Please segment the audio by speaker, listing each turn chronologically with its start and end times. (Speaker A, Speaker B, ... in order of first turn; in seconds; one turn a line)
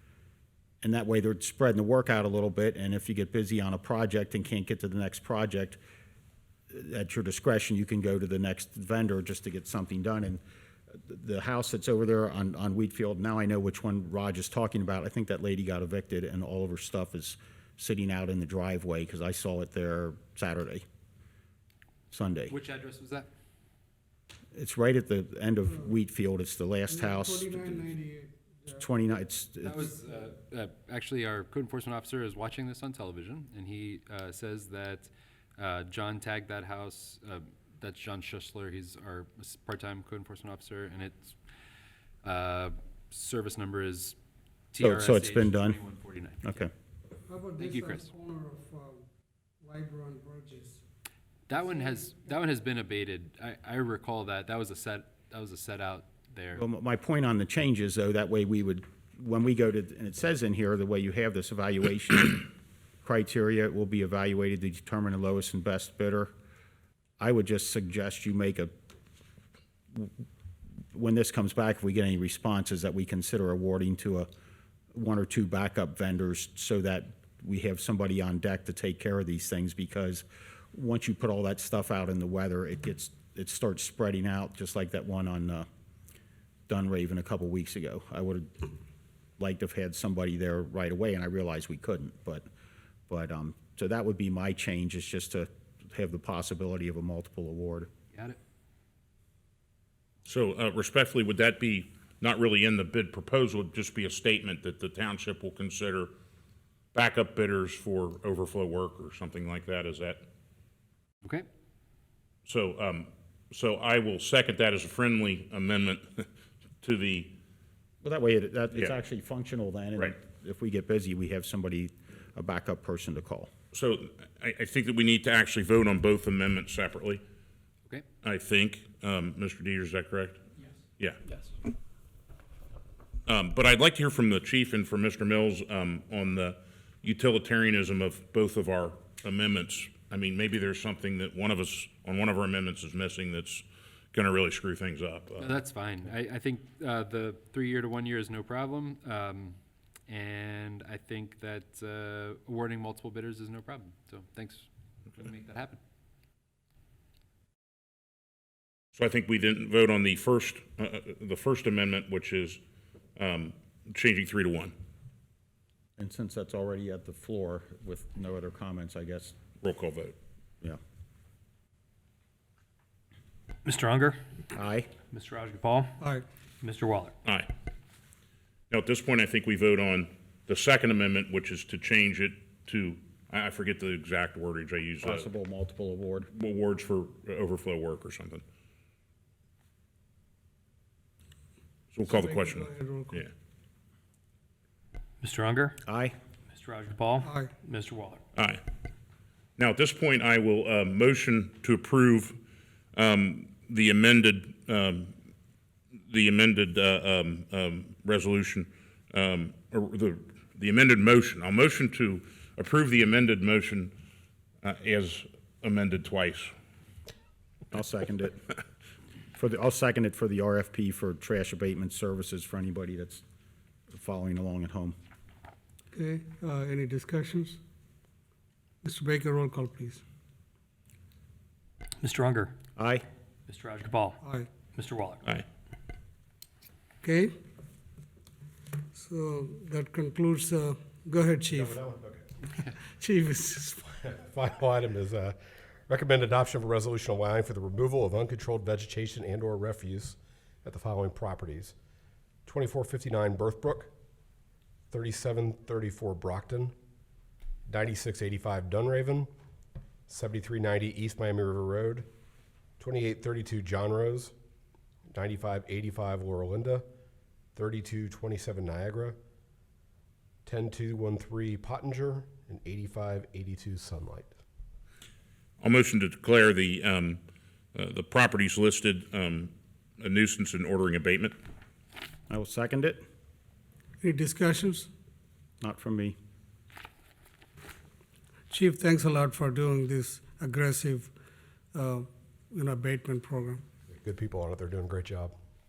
Speaker A: 0.8-5.8
Speaker A: 6.7-10.4
Speaker A: 10.9-20.8
Speaker A: 22.1-22.5
Speaker B: 22.5-23.3
Speaker A: 24.5-27.9
Speaker C: 26.9-28.9
Speaker A: 28.8-29.9
Speaker B: 29.6-41.4
Speaker B: 42.2-44.1
Speaker B: 44.7-46.6
Speaker A: 44.8-45.8
Speaker A: 46.4-46.7
Speaker C: 47.2-49.1
Speaker B: 47.6-48.1
Speaker C: 49.6-50.8
Speaker B: 51.5-56.6
Speaker A: 56.6-62.5
Speaker A: 63.0-66.3
Speaker A: 67.2-68.7
Speaker A: 70.9-74.3
Speaker A: 74.9-85.7
Speaker A: 86.7-88.7
Speaker A: 89.4-92.5
Speaker A: 93.1-97.9
Speaker D: 100.2-106.1
Speaker D: 106.9-110.2
Speaker D: 112.5-116.2
Speaker D: 116.8-117.3
Speaker A: 118.0-123.5
Speaker D: 123.7-127.2
Speaker D: 128.2-130.4
Speaker D: 133.3-145.4
Speaker B: 145.3-155.8
Speaker D: 159.0-162.6
Speaker D: 163.2-164.7
Speaker A: 166.0-169.3
Speaker D: 169.6-170.1
Speaker E: 173.6-174.2
Speaker A: 174.5-174.9
Speaker E: 175.1-177.1
Speaker D: 178.7-185.3
Speaker A: 185.0-186.3
Speaker D: 186.3-188.4
Speaker D: 191.9-193.2
Speaker C: 192.0-193.2
Speaker E: 195.2-195.8
Speaker A: 195.8-196.1
Speaker E: 196.5-198.2
Speaker C: 197.2-197.5
Speaker D: 198.3-198.6
Speaker D: 199.6-202.4
Speaker D: 202.9-205.1
Speaker D: 206.1-213.9
Speaker D: 214.6-216.5
Speaker A: 217.7-218.4
Speaker A: 219.3-223.2
Speaker A: 223.9-224.9
Speaker C: 225.9-227.6
Speaker C: 228.8-230.0
Speaker E: 232.0-232.6
Speaker A: 232.8-233.0
Speaker E: 233.5-235.4
Speaker C: 234.2-234.5
Speaker C: 237.0-237.3
Speaker C: 238.9-241.8
Speaker F: 241.5-242.2
Speaker C: 243.0-244.0
Speaker F: 244.0-245.4
Speaker F: 245.9-251.7
Speaker F: 252.4-253.9
Speaker F: 254.9-256.7
Speaker F: 257.7-259.3
Speaker F: 260.1-262.1
Speaker F: 262.8-264.3
Speaker F: 265.1-266.8
Speaker F: 267.5-269.2
Speaker F: 270.4-274.3
Speaker D: 275.6-277.2
Speaker D: 277.7-281.3
Speaker A: 282.3-283.0
Speaker C: 284.0-284.9
Speaker A: 285.6-286.2
Speaker C: 288.5-291.1
Speaker C: 291.7-293.6
Speaker F: 293.9-295.3